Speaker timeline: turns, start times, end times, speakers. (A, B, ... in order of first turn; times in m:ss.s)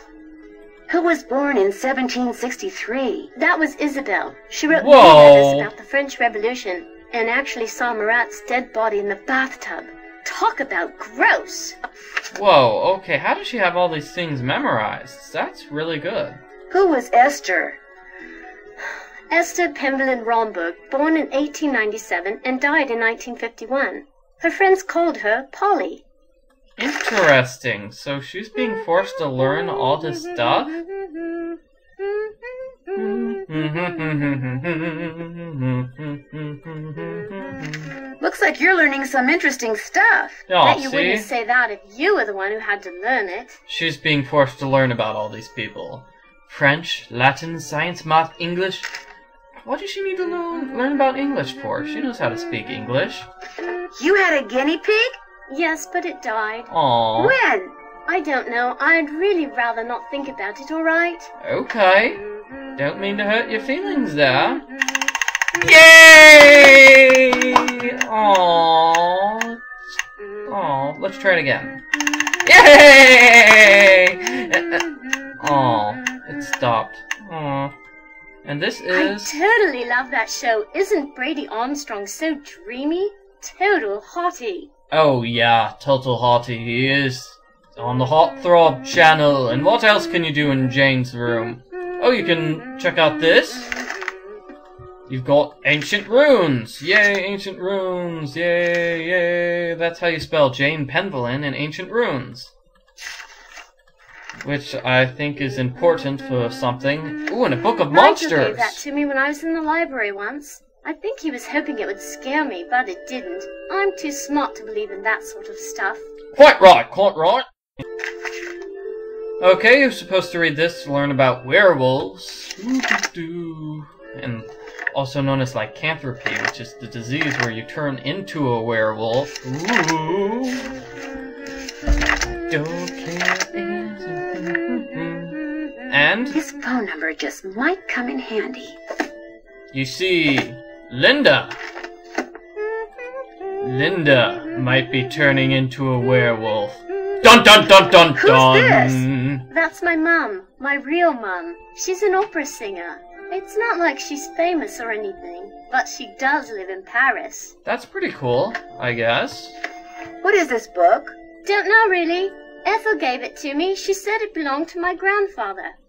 0:00.9-0:03.3 A
0:03.4-0:11.8 B
0:04.7-0:05.7 C
0:12.3-0:16.4 C
0:16.7-0:17.8 A
0:19.3-0:26.0 B
0:26.8-0:30.8 C
0:32.9-0:37.9 C
0:38.2-0:40.4 A
0:40.5-0:41.3 C
0:40.6-0:43.6 B
0:43.7-0:48.9 C
0:49.6-0:53.3 C
0:53.9-0:55.1 A
0:55.5-0:56.7 B
0:56.7-0:57.4 C
0:57.2-0:57.8 A
0:58.1-1:01.3 B
1:01.4-1:02.2 C
1:02.8-1:04.6 C
1:05.6-1:09.6 C
1:10.5-1:11.8 C
1:12.4-1:14.8 C
1:15.4-1:17.7 C
1:18.4-1:19.4 C
1:18.9-1:24.7 B
1:24.9-1:33.7 C
1:35.1-1:42.5 C
1:44.4-1:48.8 C
1:47.9-1:56.1 B
1:56.3-1:57.4 C
1:59.4-2:10.7 C
2:12.5-2:16.4 C
2:16.3-2:18.8 A
2:19.7-2:21.6 C
2:23.6-2:29.4 C
2:28.1-2:29.0 A
2:29.5-2:37.5 B
2:37.6-2:39.6 C
2:40.2-2:41.2 A
2:41.4-2:45.8 B